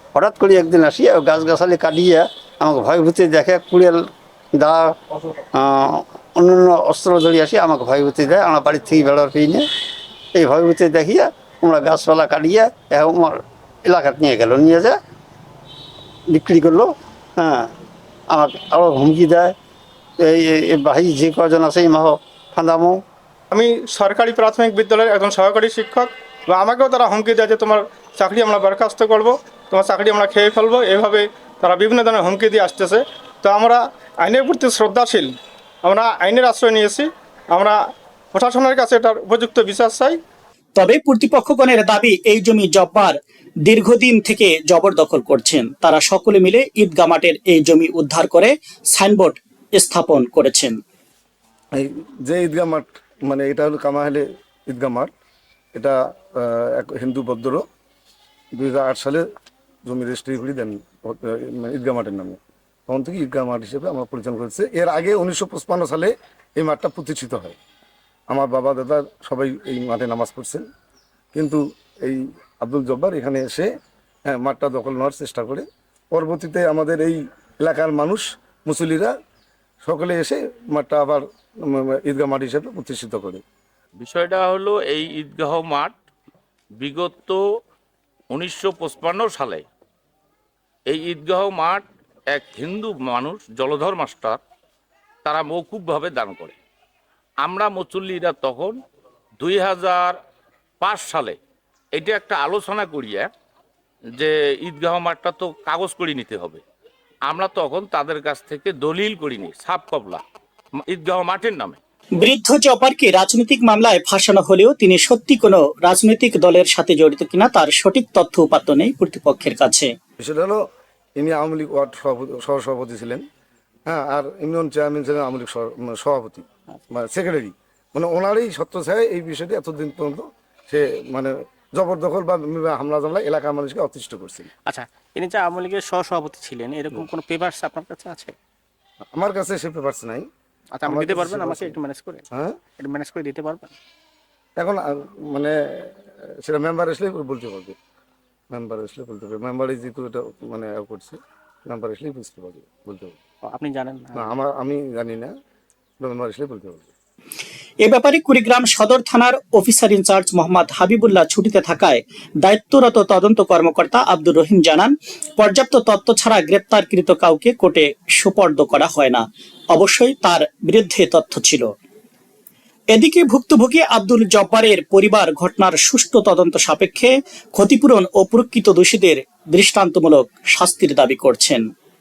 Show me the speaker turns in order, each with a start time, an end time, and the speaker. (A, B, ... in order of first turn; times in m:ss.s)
0:00.1-0:04.9 A
0:05.5-0:09.7 A
0:10.3-0:15.0 A
0:16.3-0:17.7 A
0:18.3-0:19.5 A
0:20.2-0:23.0 A
0:23.5-0:37.8 B
0:38.3-0:40.2 B
0:40.8-0:50.8 C
0:51.8-0:55.1 D
0:55.8-0:57.6 D
0:58.5-0:59.2 D
0:59.8-1:07.6 D
1:08.3-1:10.6 D
1:11.3-1:13.7 D
1:14.3-1:19.1 D
1:19.8-1:23.4 D
1:24.0-1:25.9 E
1:26.8-1:27.4 E
1:28.3-1:29.6 E
1:30.9-1:34.4 E
1:35.2-1:36.6 E
1:37.4-1:38.8 E
1:39.4-1:40.2 E
1:40.8-1:41.4 E
1:41.9-1:43.3 E
1:44.2-1:46.6 E
1:47.3-1:50.2 E
1:50.9-1:51.8 E
1:52.2-1:59.9 C
2:00.2-2:00.6 D
2:01.2-2:03.2 D
2:03.9-2:14.5 D
2:14.7-2:18.3 F
2:19.1-2:20.2 D
2:20.8-2:22.2 F
2:20.8-2:21.8 D
2:22.3-2:22.6 D
2:22.8-2:23.7 F
2:24.6-2:27.7 D
2:28.5-2:33.2 D
2:33.5-2:34.3 F
2:34.2-2:35.3 D
2:36.0-2:36.9 D
2:37.8-2:51.7 C
2:52.9-3:01.7 C